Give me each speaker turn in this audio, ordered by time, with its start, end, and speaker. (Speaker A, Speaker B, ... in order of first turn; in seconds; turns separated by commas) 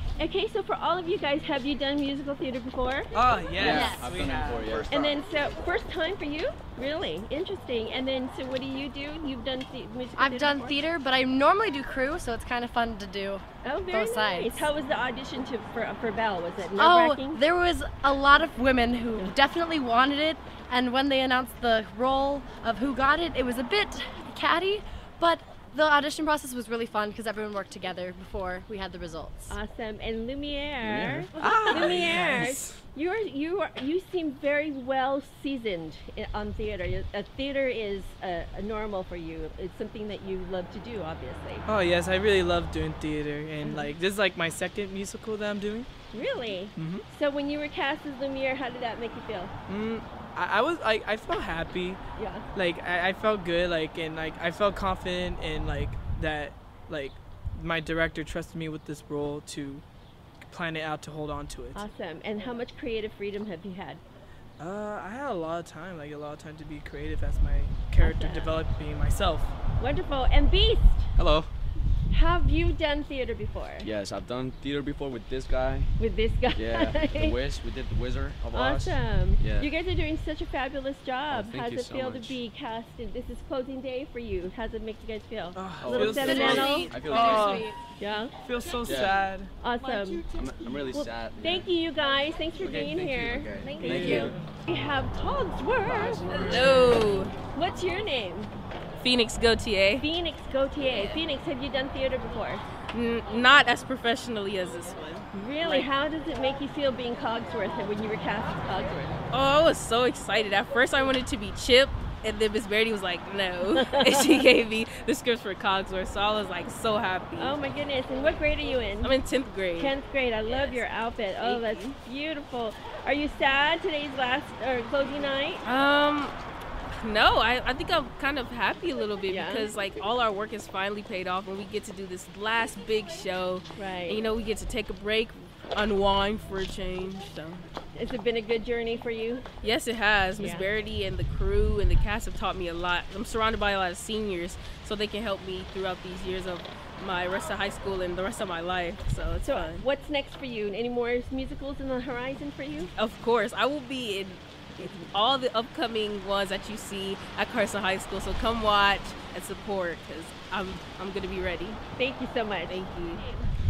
Speaker A: 0.2-3.1, Speaker B: 3.1-4.9, Speaker C: 3.5-5.2, Speaker D: 3.6-4.0, Speaker A: 4.9-10.8, Speaker D: 10.1-14.7, Speaker A: 13.6-17.4, Speaker D: 16.8-29.6, Speaker A: 29.5-41.6, Speaker C: 30.8-31.3, Speaker B: 31.4-32.7, Speaker B: 41.6-45.9, Speaker A: 43.6-44.0, Speaker A: 46.1-49.5, Speaker B: 46.8-47.0, Speaker B: 49.7-52.0, Speaker A: 52.2-52.4, Speaker B: 52.5-59.8, Speaker B: 60.4-61.9, Speaker A: 61.7-64.0, Speaker B: 64.6-69.5, Speaker A: 68.0-68.5, Speaker A: 69.8-71.0, Speaker C: 71.2-71.5, Speaker A: 72.1-73.9, Speaker C: 73.8-75.9, Speaker A: 76.0-77.3, Speaker C: 76.5-79.7, Speaker A: 78.5-88.3, Speaker C: 81.3-82.4, Speaker B: 85.5-87.7, Speaker C: 85.8-87.4, Speaker D: 86.6-87.7, Speaker B: 88.4-89.5, Speaker C: 88.8-89.2, Speaker A: 89.6-90.2, Speaker C: 90.2-91.7, Speaker A: 90.9-98.5, Speaker C: 92.6-94.4, Speaker B: 93.8-94.5, Speaker C: 95.8-97.0, Speaker E: 96.4-97.3, Speaker E: 99.0-100.1, Speaker A: 100.0-102.6, Speaker E: 100.9-101.2, Speaker E: 102.9-105.9, Speaker A: 105.3-109.2, Speaker E: 109.3-117.5, Speaker A: 113.7-114.4, Speaker A: 117.4-119.1, Speaker E: 119.0-120.8, Speaker A: 119.8-125.6, Speaker E: 121.4-121.9, Speaker E: 125.6-126.3, Speaker E: 127.0-137.6, Speaker A: 129.3-129.7, Speaker A: 133.8-134.2, Speaker A: 137.9-139.4, Speaker E: 139.6-149.8, Speaker A: 140.4-140.7, Speaker A: 149.4-152.9, Speaker E: 152.9-161.8, Speaker A: 161.9-162.9, Speaker E: 162.7-163.4